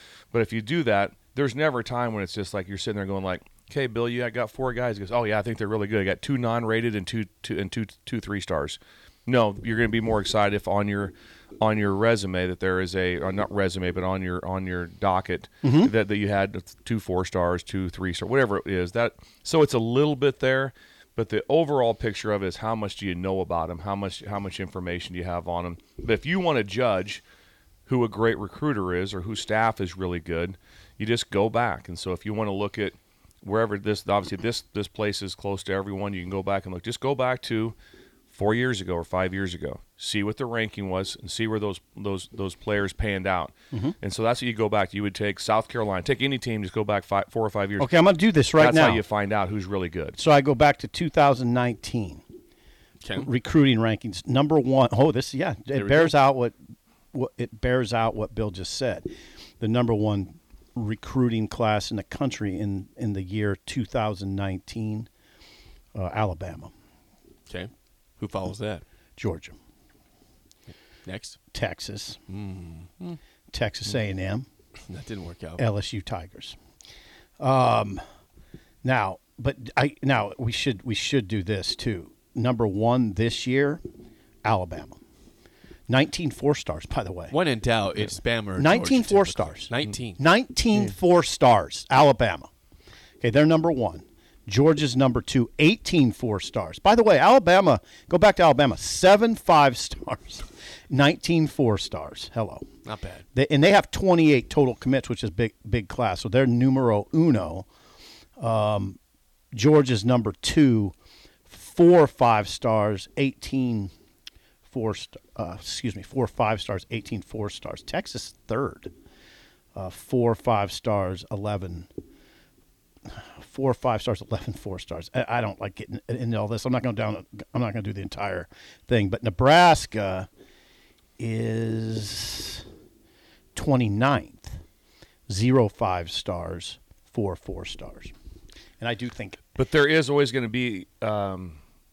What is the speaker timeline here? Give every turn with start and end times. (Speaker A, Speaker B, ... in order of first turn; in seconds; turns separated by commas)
Speaker A: 0.3-27.2, Speaker B: 15.6-15.9, Speaker A: 27.9-37.8, Speaker A: 38.3-47.9, Speaker B: 47.8-49.0, Speaker A: 48.6-50.2, Speaker B: 50.2-52.2, Speaker C: 53.0-53.3, Speaker B: 53.2-56.5, Speaker C: 55.7-56.1, Speaker B: 57.1-59.0, Speaker B: 59.6-65.1, Speaker B: 66.0-66.7, Speaker C: 67.5-68.8, Speaker B: 69.2-69.6, Speaker C: 71.0-71.4, Speaker B: 71.5-72.2, Speaker C: 72.3-73.2, Speaker B: 73.5-74.5, Speaker C: 74.9-75.6, Speaker B: 75.6-76.6, Speaker B: 77.4-78.0, Speaker B: 78.8-83.8, Speaker B: 84.4-85.0, Speaker B: 85.9-87.3, Speaker C: 87.3-90.2, Speaker B: 88.6-92.5, Speaker B: 93.2-102.7, Speaker C: 102.8-103.2, Speaker B: 103.3-107.7, Speaker B: 108.4-109.0, Speaker B: 109.5-110.9, Speaker B: 111.5-113.9, Speaker B: 114.7-118.9, Speaker B: 119.8-121.9, Speaker B: 123.1-130.3, Speaker B: 131.2-132.7, Speaker B: 133.6-134.6, Speaker B: 135.3-138.1, Speaker B: 138.8-139.4, Speaker A: 139.6-141.6